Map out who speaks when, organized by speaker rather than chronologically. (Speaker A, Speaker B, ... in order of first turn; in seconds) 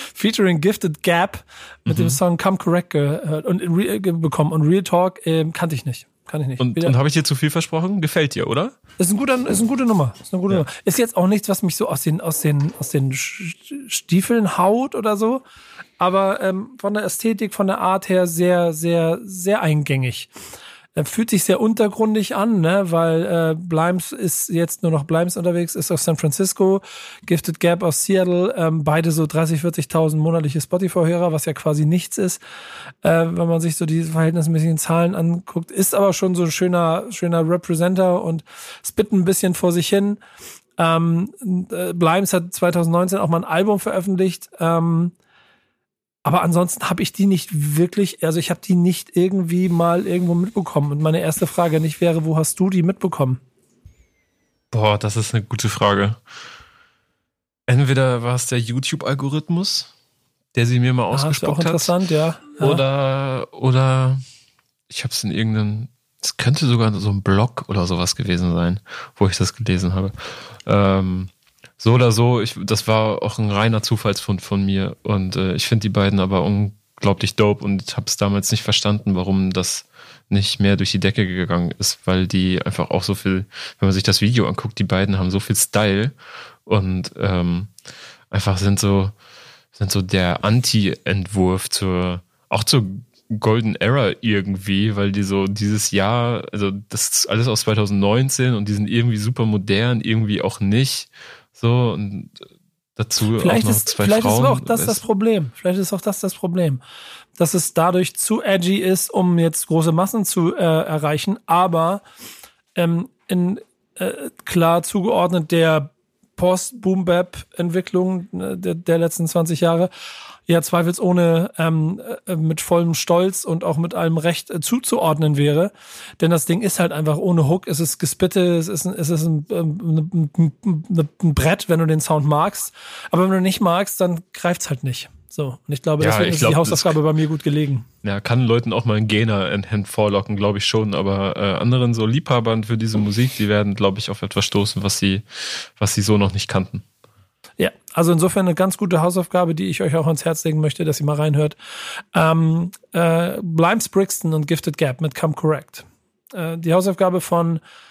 Speaker A: 0.1-7.0, 9.0-15.4, 16.0-20.3, 20.9-32.4, 33.0-40.2, 40.8-45.1, 46.2-53.4, 61.1-62.8, 103.4-106.8, 107.4-112.0, 112.8-119.9, 120.5-137.8, 147.6-151.5, 152.1-157.6
Speaker B: 1.9-2.2, 6.6-8.8, 54.7-56.2, 57.7-59.9, 60.5-61.9, 62.6-64.2, 64.9-86.1, 86.7-87.7, 88.3-89.1, 89.7-102.3, 103.0-105.0, 136.0-137.0, 138.0-146.8